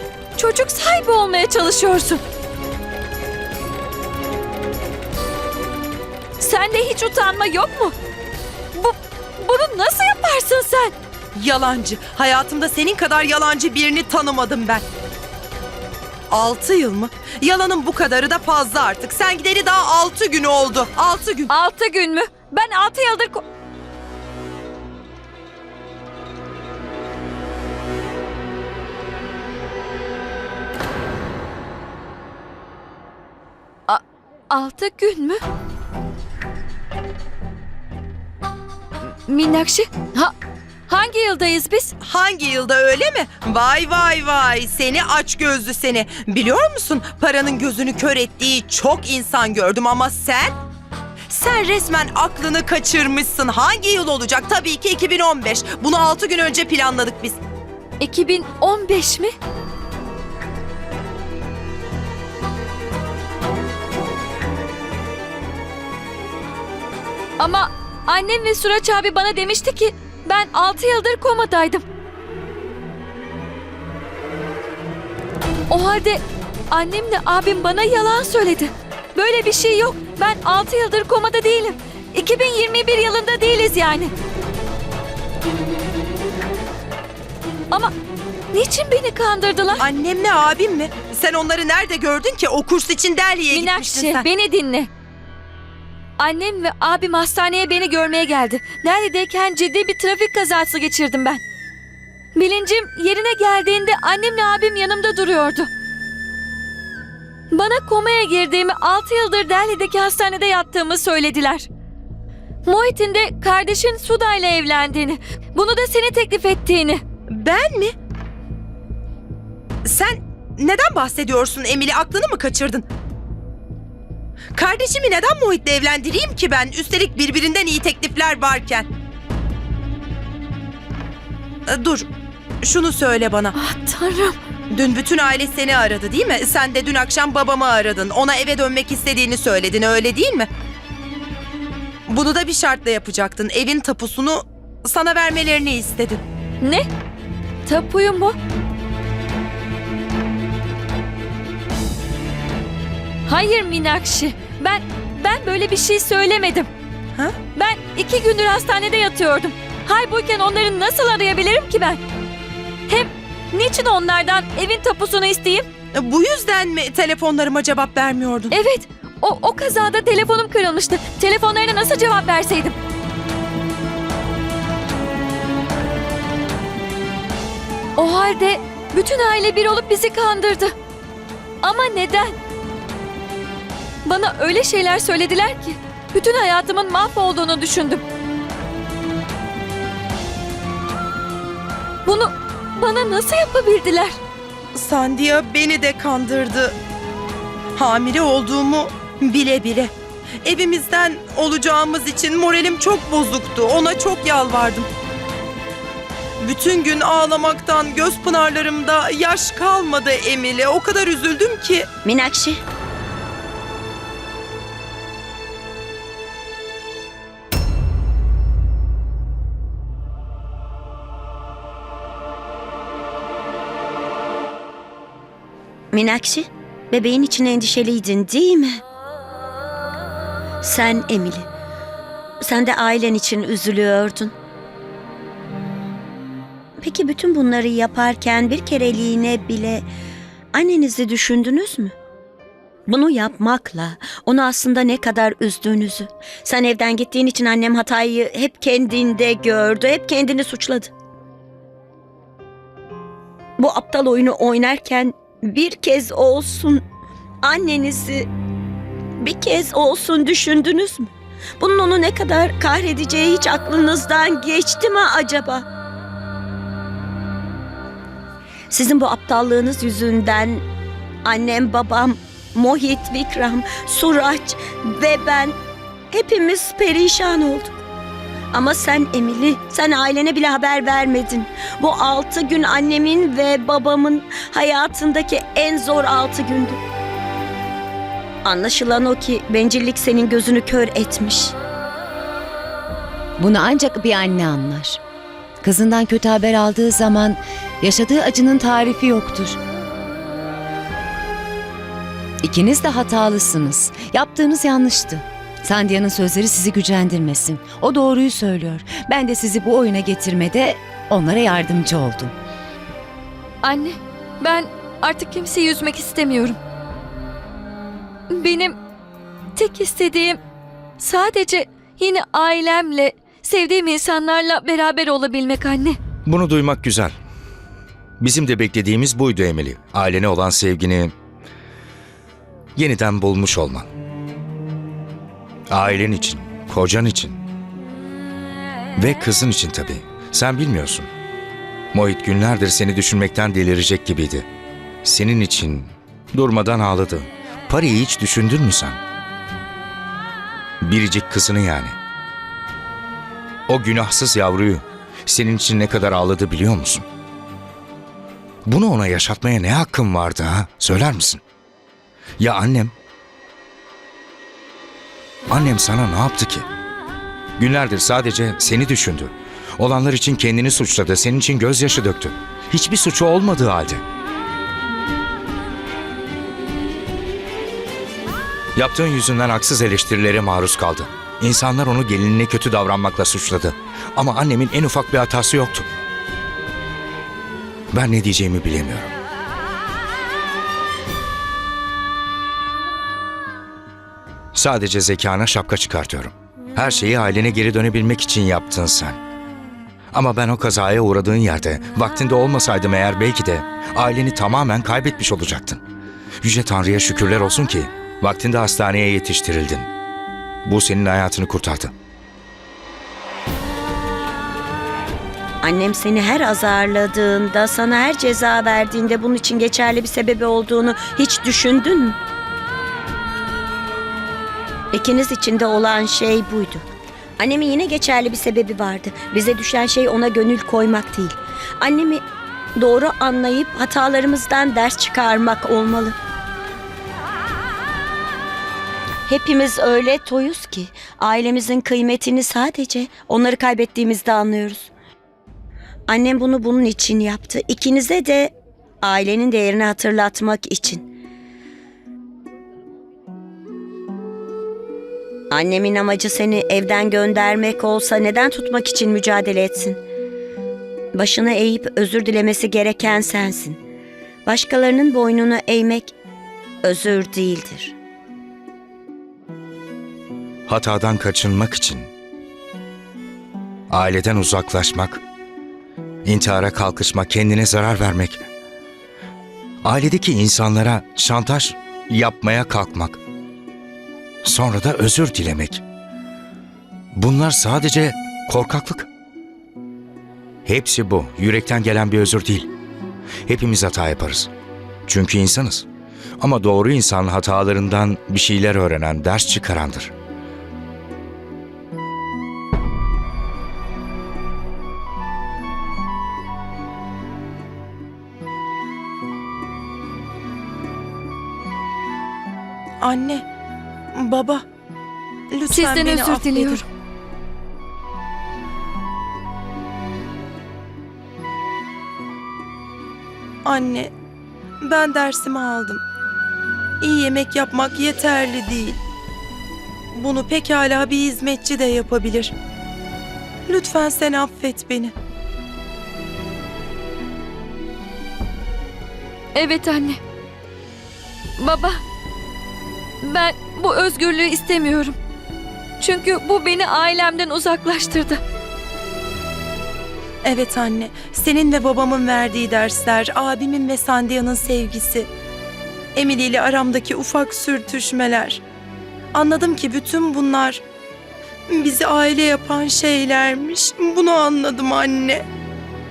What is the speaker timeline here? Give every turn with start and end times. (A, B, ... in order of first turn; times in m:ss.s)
0:00.4-0:02.2 A
0:06.4-0:07.9 A
0:08.7-0:10.9 A
0:11.3-0:14.8 B
0:16.3-0:21.5 B
0:21.5-0:23.4 A
0:33.9-0:35.4 A
0:39.2-0:40.3 A
0:40.9-0:41.9 A
0:42.0-0:50.6 B
0:51.3-0:57.4 B
0:58.0-0:59.3 A
1:07.4-1:11.8 A
1:15.7-1:24.1 A
1:28.5-1:29.8 A
1:29.8-1:34.2 B
1:33.5-1:34.9 A
1:36.2-1:41.4 A
1:42.3-1:45.7 A
1:47.5-1:51.7 A
1:52.6-1:57.0 A
1:57.3-1:57.9 B
1:59.8-2:02.8 B
2:04.5-2:08.9 B
2:11.7-2:12.1 B
2:12.6-2:13.5 B
2:13.5-2:14.4 A
2:14.7-2:20.5 B
2:22.1-2:26.2 B
2:26.6-2:26.9 A
2:27.6-2:28.4 A
2:33.3-2:36.7 A
2:37.5-2:42.0 A
2:42.9-2:45.7 A
2:45.9-2:48.5 B
2:48.5-2:52.8 A
2:58.0-3:00.7 A
3:01.6-3:02.4 A
3:04.0-3:08.0 A
3:12.0-3:14.2 A
3:14.7-3:16.8 B
3:17.7-3:19.9 B
3:20.4-3:24.9 B
3:26.4-3:31.9 B
3:32.0-3:32.6 C
3:45.9-3:48.8 C
3:50.6-3:51.5 C
3:52.4-3:54.3 C
3:56.8-3:59.8 C
4:00.5-4:01.9 C
4:02.9-4:10.9 C
4:13.6-4:16.8 C
4:17.4-4:18.3 C
4:19.2-4:25.6 C
4:28.7-4:30.6 C
4:31.2-4:35.6 C
4:36.1-4:37.8 C
4:38.5-4:46.8 C
4:48.4-4:51.5 C
4:53.4-4:55.0 D
4:55.6-4:59.6 D
5:02.4-5:12.3 D
5:13.6-5:16.6 A
5:18.3-5:18.8 A
5:19.6-5:20.4 A
5:21.0-5:26.0 A
5:26.3-5:27.1 E
5:28.2-5:31.1 E
5:32.8-5:33.8 E
5:35.7-5:37.4 E
5:39.0-5:41.1 E
5:41.9-5:44.4 E
5:45.0-5:49.0 E
5:50.8-5:51.9 E
5:53.7-5:57.0 E
5:58.6-6:01.4 E
6:02.4-6:02.9 E
6:05.5-6:06.6 E
6:07.6-6:14.0 E
6:18.8-6:25.8 E
6:27.9-6:29.1 E
6:34.5-6:39.2 E
6:40.1-6:45.8 E
6:46.4-6:49.9 E
6:50.6-6:51.9 E
6:55.6-7:02.2 C
7:04.9-7:06.8 C
7:07.4-7:12.2 C
7:12.8-7:16.2 C
7:19.3-7:24.9 C
7:26.1-7:28.5 C
7:29.0-7:31.0 C
7:35.5-7:40.0 C
7:41.1-7:43.8 C
7:44.4-7:46.1 C
7:46.8-7:47.9 C
7:50.7-7:52.1 E
7:53.9-7:55.2 E
7:56.2-7:58.4 E
7:59.8-8:03.2 E
8:04.4-8:05.8 E
8:07.1-8:09.1 E
8:10.6-8:12.7 E
8:13.5-8:14.5 E
8:15.1-8:15.8 E
8:16.4-8:20.1 E
8:33.0-8:33.4 B
8:34.1-8:34.6 B
8:35.5-8:36.8 B
8:35.7-8:36.8 A
8:43.6-8:44.1 B
8:44.8-8:46.0 B
8:47.0-8:49.0 B
8:50.1-8:52.5 B
8:53.7-8:55.1 B
8:59.5-9:00.2 A
9:01.6-9:02.0 A
9:03.2-9:05.2 A
9:06.0-9:08.4 A
9:10.4-9:15.3 B
9:16.1-9:18.6 B
9:19.3-9:20.8 B
9:21.7-9:25.4 B